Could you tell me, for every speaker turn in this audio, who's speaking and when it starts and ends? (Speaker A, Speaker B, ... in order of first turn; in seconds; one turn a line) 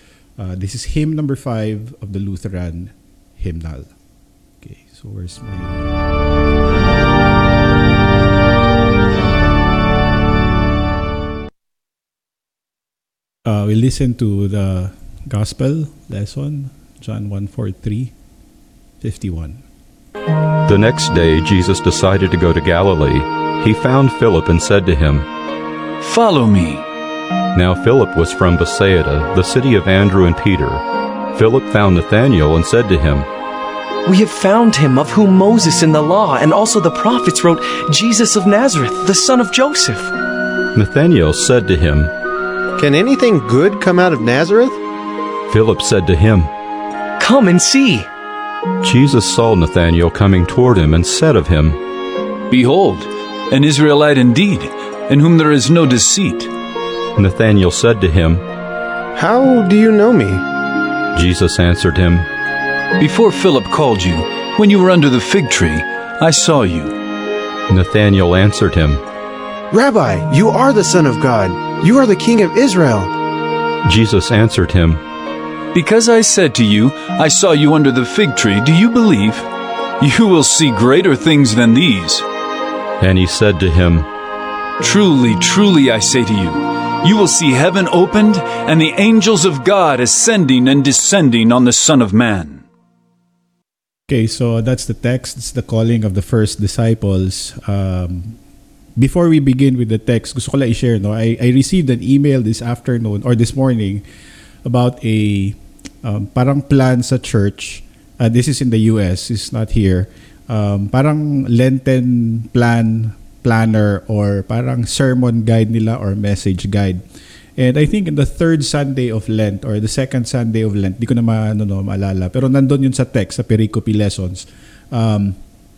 Speaker A: 0.4-3.9
Speaker A: 4.6-5.9
Speaker A: 13.4-18.1
Speaker A: 19.0-19.6
Speaker B: 20.6-25.3
Speaker C: 26.0-26.9
Speaker B: 27.5-33.3
Speaker D: 34.1-40.1
Speaker B: 40.7-42.1
Speaker E: 42.8-44.8
Speaker B: 45.5-46.5
Speaker D: 47.2-48.1
Speaker B: 48.8-51.8
Speaker C: 52.5-56.5
Speaker B: 57.2-58.5
Speaker E: 59.1-60.4
Speaker B: 61.1-62.3
Speaker C: 63.0-67.0
Speaker B: 67.7-69.0
Speaker E: 69.7-73.1
Speaker B: 73.8-75.0
Speaker C: 75.7-79.5
Speaker C: 80.0-82.2
Speaker B: 83.0-84.1
Speaker C: 84.8-92.7
Speaker A: 94.1-98.4
Speaker A: 99.0-104.0
Speaker A: 104.7-117.0
Speaker A: 117.6-125.4